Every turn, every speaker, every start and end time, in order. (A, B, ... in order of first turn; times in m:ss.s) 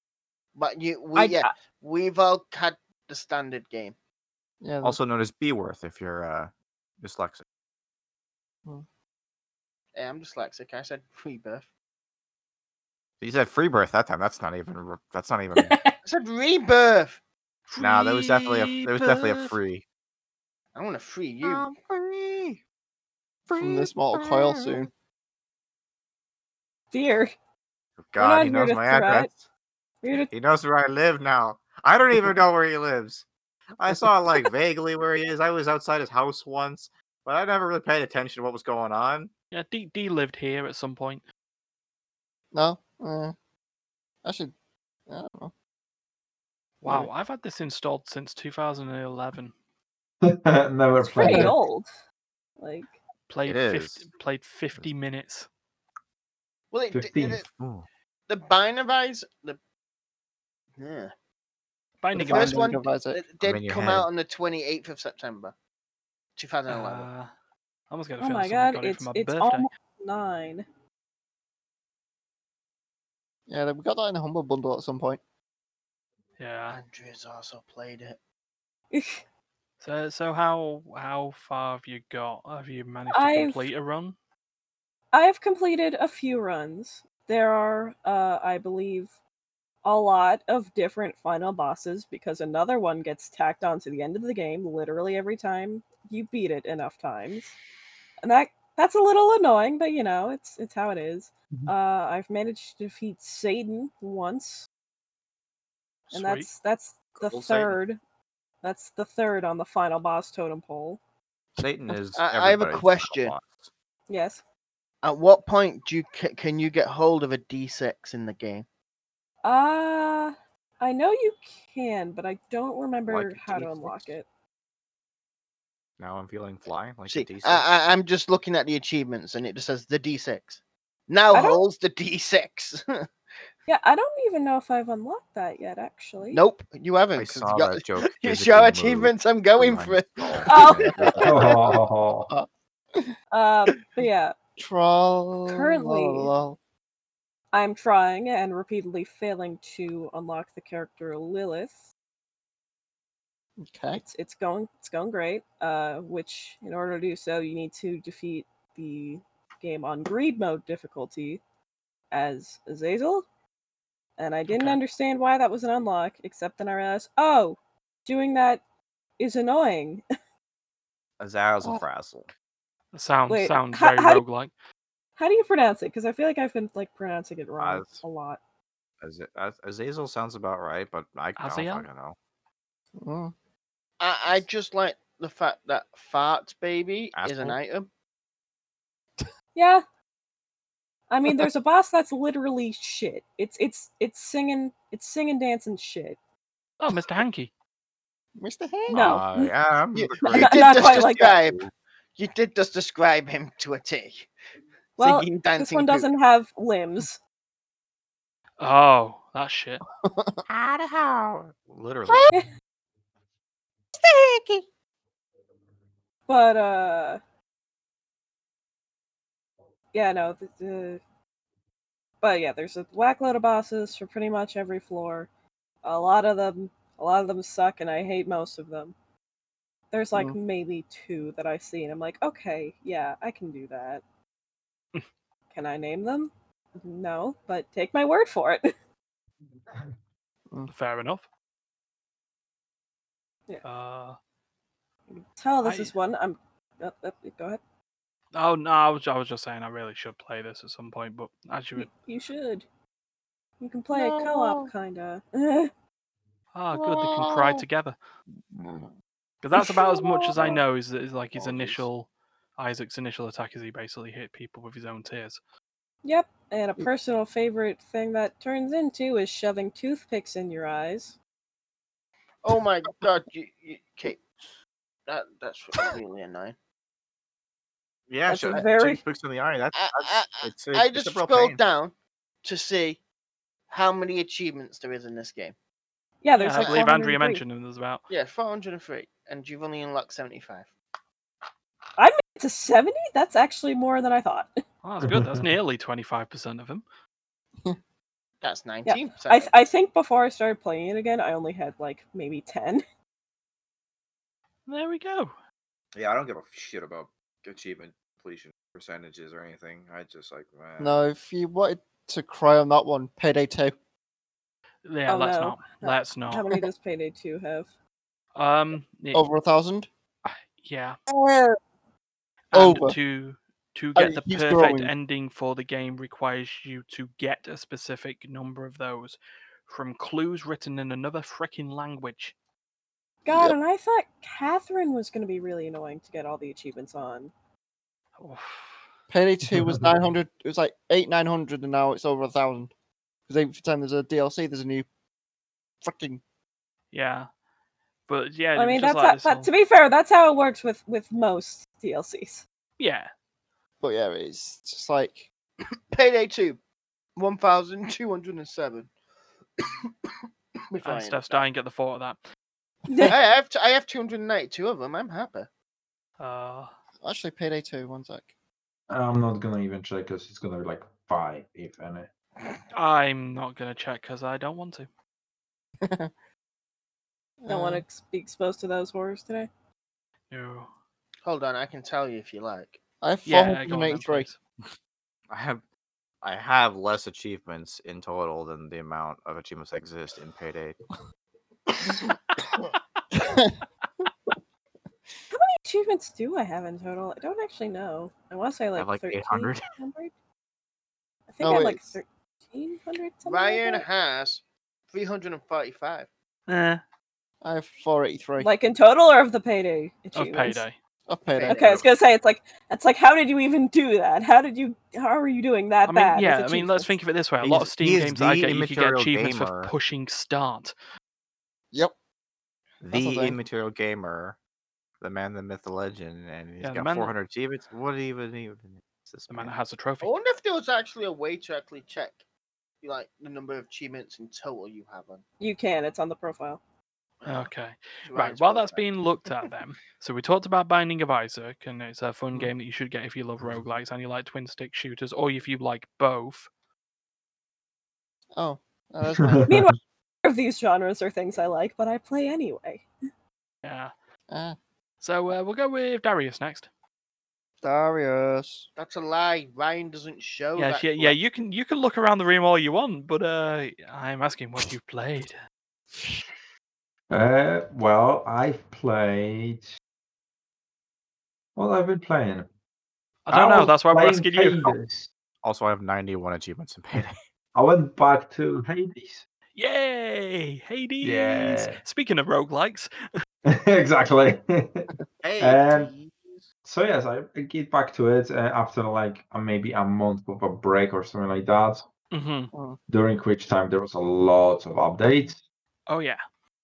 0:00.5-0:03.9 A
0:01.1-0:01.5 B
0:04.6-0:05.0 C
0:04.8-0:07.4 D
0:10.0-0:11.7 A
0:13.2-0:15.8 D
0:15.6-0:15.9 B
0:16.0-0:17.2 A
0:17.7-0:19.6 E
0:17.8-0:19.8 D
0:20.7-0:21.6 A
0:21.4-0:22.6 D
0:23.5-0:24.8 D
0:23.6-0:24.9 C
0:26.9-0:27.3 B
0:28.0-0:29.4 D
0:28.2-0:29.3 B
0:30.0-0:30.3 B
0:30.2-0:33.2 D
0:33.8-0:39.3 D
0:39.5-0:41.2 E
0:42.5-0:43.3 C
0:44.2-0:44.5 C
0:45.1-0:45.5 C
0:46.8-0:49.5 E
0:46.8-0:47.1 C
0:50.2-0:51.6 F
0:51.0-0:51.9 B
0:51.2-0:51.5 C
0:52.6-0:52.9 B
0:53.3-0:55.5 E
0:53.4-0:54.1 D
0:56.7-0:57.4 A
0:56.9-0:57.4 F
0:57.4-0:57.9 D
0:58.3-0:59.6 A
1:00.8-1:01.1 A
1:02.0-1:02.8 E
1:02.1-1:03.2 C
1:02.2-1:05.5 A
1:03.4-1:04.1 D
1:06.4-1:07.1 A
1:06.7-1:07.3 E
1:07.9-1:09.7 E
1:08.2-1:10.6 B
1:13.5-1:15.2 C
1:16.4-1:16.8 E
1:16.7-1:18.2 A
1:18.9-1:19.2 B
1:19.8-1:24.2 E
1:23.1-1:23.7 B
1:25.1-1:29.1 B
1:29.8-1:37.6 B
1:38.2-1:44.7 B
1:46.1-1:46.5 E
1:46.1-1:48.0 B
1:47.2-1:47.8 D
1:48.6-1:51.0 B
1:51.6-1:53.7 D
1:52.2-1:53.3 A
1:54.1-1:54.4 B
1:55.0-1:58.6 A
1:59.4-2:04.3 B
2:03.1-2:04.1 D
2:06.0-2:07.6 D
2:07.1-2:13.1 A
2:11.3-2:11.6 B
2:13.7-2:16.4 B
2:16.3-2:20.9 A
2:17.2-2:21.5 D
2:20.4-2:21.2 B
2:21.2-2:22.3 F
2:22.3-2:23.1 C
2:23.3-2:24.3 B
2:24.6-2:26.6 C
2:25.5-2:26.3 B
2:27.5-2:31.9 B
2:33.6-2:34.0 C
2:33.9-2:41.4 B
2:42.1-2:43.2 B
2:44.2-2:48.6 B
2:44.5-2:44.8 E
2:49.2-2:50.0 B
2:51.2-2:52.3 D
2:52.9-2:54.5 E
2:53.3-2:54.2 B
2:55.2-2:58.4 B
2:57.6-2:58.0 D
2:59.0-3:02.2 D
3:01.4-3:01.8 E
3:03.0-3:03.3 C
3:04.0-3:07.9 A
3:07.1-3:07.6 D
3:09.5-3:09.8 B
3:11.1-3:16.2 B
3:16.8-3:17.5 E
3:18.4-3:19.2 C
3:18.9-3:19.5 B
3:18.9-3:21.7 D
3:20.2-3:21.3 B
3:20.3-3:24.3 A
3:25.0-3:26.1 A
3:25.0-3:27.2 B
3:28.6-3:29.8 E
3:30.0-3:30.4 C
3:30.5-3:32.3 D
3:34.0-3:34.6 C
3:36.3-3:37.2 B
3:39.9-3:41.0 B
3:42.2-3:45.3 B
3:45.8-3:48.9 B
3:49.9-3:54.0 B
3:55.5-3:58.7 B
4:00.7-4:01.2 E
4:03.6-4:04.2 E
4:05.4-4:07.6 B
4:05.6-4:05.9 E
4:08.3-4:11.9 E
4:11.8-4:12.6 B
4:13.6-4:15.7 B
4:13.9-4:14.7 C
4:16.5-4:18.0 E
4:16.8-4:17.6 C
4:18.5-4:18.9 C
4:19.4-4:25.4 E
4:19.9-4:20.3 B
4:21.4-4:21.8 D
4:26.0-4:31.2 B
4:32.4-4:34.2 A
4:35.1-4:36.5 A
4:38.1-4:41.6 D
4:38.2-4:39.0 B
4:39.7-4:43.0 A
4:43.7-4:45.5 A
4:46.2-4:47.4 B
4:46.4-4:48.0 E
4:46.5-4:46.8 A
4:48.1-4:50.7 A
4:52.0-4:54.5 B
4:54.8-4:56.8 E
4:55.0-4:55.5 F
4:58.4-4:59.5 A
4:58.8-5:02.8 B
5:04.7-5:05.3 E
5:05.9-5:11.0 D
5:10.8-5:13.8 C
5:14.8-5:16.4 E
5:15.1-5:17.7 B
5:18.4-5:19.2 E
5:19.1-5:19.9 C
5:20.2-5:21.0 E
5:21.1-5:21.6 C
5:22.5-5:32.3 E
5:22.5-5:23.0 C
5:24.0-5:24.9 C
5:33.2-5:37.3 B
5:33.3-5:33.6 C
5:38.2-5:38.8 E
5:39.1-5:42.7 C
5:39.5-5:39.9 F
5:43.3-5:44.9 C
5:45.8-5:46.2 C
5:46.9-5:47.3 E
5:48.1-5:49.5 E
5:48.6-5:52.4 B
5:52.8-5:53.1 E
5:53.8-5:55.3 C
5:55.9-5:56.6 A
5:57.2-5:58.9 A
5:59.6-6:00.1 A
6:00.7-6:01.5 A
6:00.8-6:02.2 E
6:02.9-6:03.1 B
6:03.0-6:05.5 A
6:06.2-6:06.7 E
6:07.0-6:08.3 C
6:08.9-6:12.1 F
6:12.7-6:14.9 E
6:15.8-6:16.1 C
6:17.4-6:17.8 C
6:17.5-6:19.5 B
6:20.3-6:20.7 E
6:21.2-6:22.8 A
6:23.0-6:24.3 C
6:23.2-6:24.4 E
6:25.3-6:25.6 D
6:26.2-6:30.8 D
6:33.1-6:33.6 C
6:35.3-6:40.1 B
6:38.8-6:39.7 D
6:41.3-6:43.8 B
6:41.4-6:42.0 C
6:43.2-6:46.1 A
6:46.5-6:46.8 E
6:47.4-6:48.5 C
6:48.4-6:50.6 B
6:50.1-6:50.8 E
6:51.1-6:51.8 C
6:51.3-6:51.9 A
6:51.4-6:56.9 B
6:55.8-7:00.7 E
6:57.4-6:59.7 D
7:02.8-7:04.4 D
7:02.9-7:03.4 C
7:05.0-7:09.5 D
7:06.6-7:07.1 E
7:09.3-7:10.1 E
7:10.0-7:12.2 A
7:12.8-7:15.2 A
7:15.4-7:16.6 B
7:17.2-7:17.5 A
7:17.2-7:26.5 E
7:18.0-7:18.9 A
7:28.4-7:29.5 C
7:29.2-7:29.6 F
7:29.5-7:32.8 B
7:33.6-7:33.9 E
7:34.3-7:34.6 C
7:35.0-7:36.7 E
7:37.6-7:38.7 C
7:38.8-7:41.2 A
7:40.6-7:45.4 E
7:47.1-7:49.7 F
7:51.6-7:52.4 F
7:53.3-7:54.7 E
7:53.3-7:55.1 F
7:55.4-7:57.2 D
7:57.5-7:59.2 F
7:59.5-8:02.9 E
8:01.0-8:01.8 F
8:03.4-8:04.9 F
8:05.2-8:06.4 D
8:05.4-8:05.9 F
8:06.6-8:11.9 F
8:12.1-8:12.5 E
8:12.5-8:12.8 C
8:12.9-8:15.4 F
8:15.9-8:16.2 E